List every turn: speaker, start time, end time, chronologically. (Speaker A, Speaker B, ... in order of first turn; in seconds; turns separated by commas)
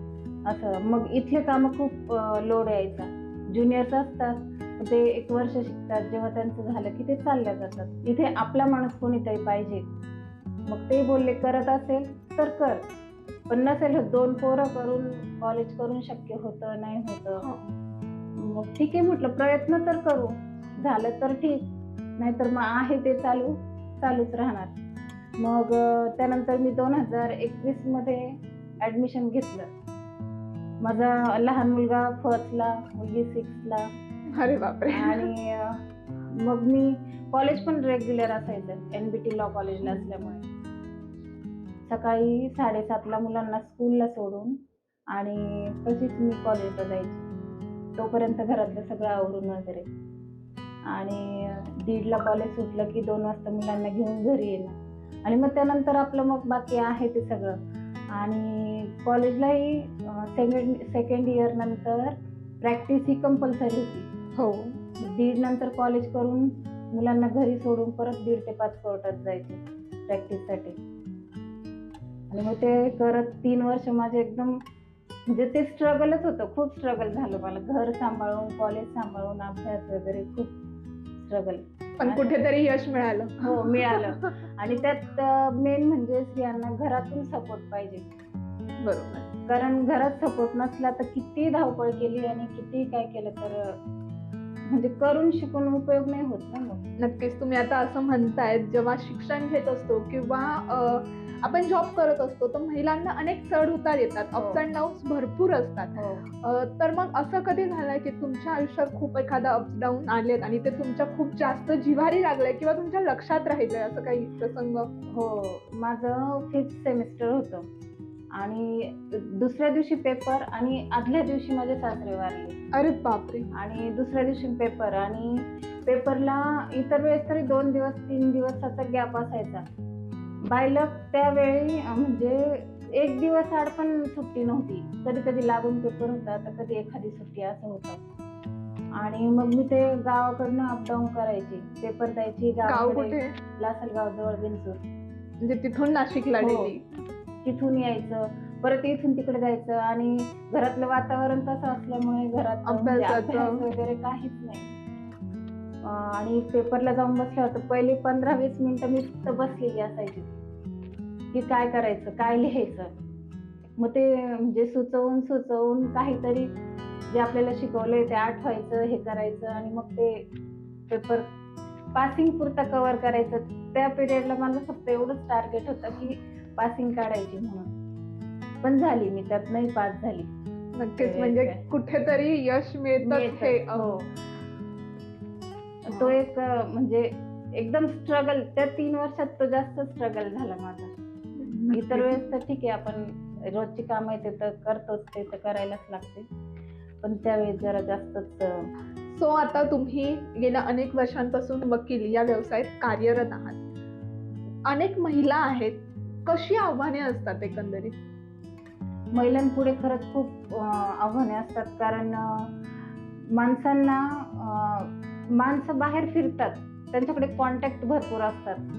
Speaker A: 0.5-9.9, Speaker A: 10.7-12.8, Speaker A: 13.5-17.5, Speaker B: 17.4-17.7, Speaker A: 18.4-24.8, Speaker A: 25.4-29.7, Speaker A: 30.8-33.9, Speaker B: 34.3-35.3, Speaker A: 34.9-35.8, Speaker A: 36.4-40.5, Speaker A: 41.9-44.6, Speaker A: 45.1-47.3, Speaker A: 48.0-49.9, Speaker A: 50.9-57.6, Speaker A: 58.1-64.1, Speaker B: 64.4-64.8, Speaker A: 65.0-70.8, Speaker A: 72.3-74.6, Speaker A: 75.3-80.5, Speaker A: 81.2-82.4, Speaker B: 82.0-84.3, Speaker A: 83.4-88.0, Speaker B: 88.8-89.3, Speaker A: 89.5-93.8, Speaker A: 94.7-96.8, Speaker B: 97.0-114.9, Speaker A: 104.3-104.6, Speaker A: 105.9-106.2, Speaker A: 115.1-117.7, Speaker A: 118.4-122.6, Speaker B: 122.7-123.5, Speaker A: 123.5-129.7, Speaker A: 130.4-138.0, Speaker A: 138.9-144.8, Speaker B: 142.7-143.4, Speaker B: 145.4-147.0, Speaker A: 146.4-146.7, Speaker A: 147.4-154.7, Speaker B: 152.7-153.6, Speaker A: 155.8-160.3, Speaker A: 161.3-162.9, Speaker A: 163.8-166.5, Speaker A: 167.1-170.3, Speaker A: 170.9-171.3, Speaker A: 171.9-177.7, Speaker A: 178.6-180.3, Speaker B: 180.8-184.0, Speaker A: 181.0-181.6, Speaker A: 183.0-184.1, Speaker A: 185.8-190.9, Speaker B: 185.9-186.2, Speaker B: 191.4-192.2, Speaker A: 191.7-196.3, Speaker A: 197.0-198.7, Speaker B: 199.1-203.6, Speaker B: 204.7-208.0, Speaker A: 209.1-212.5, Speaker A: 213.3-218.6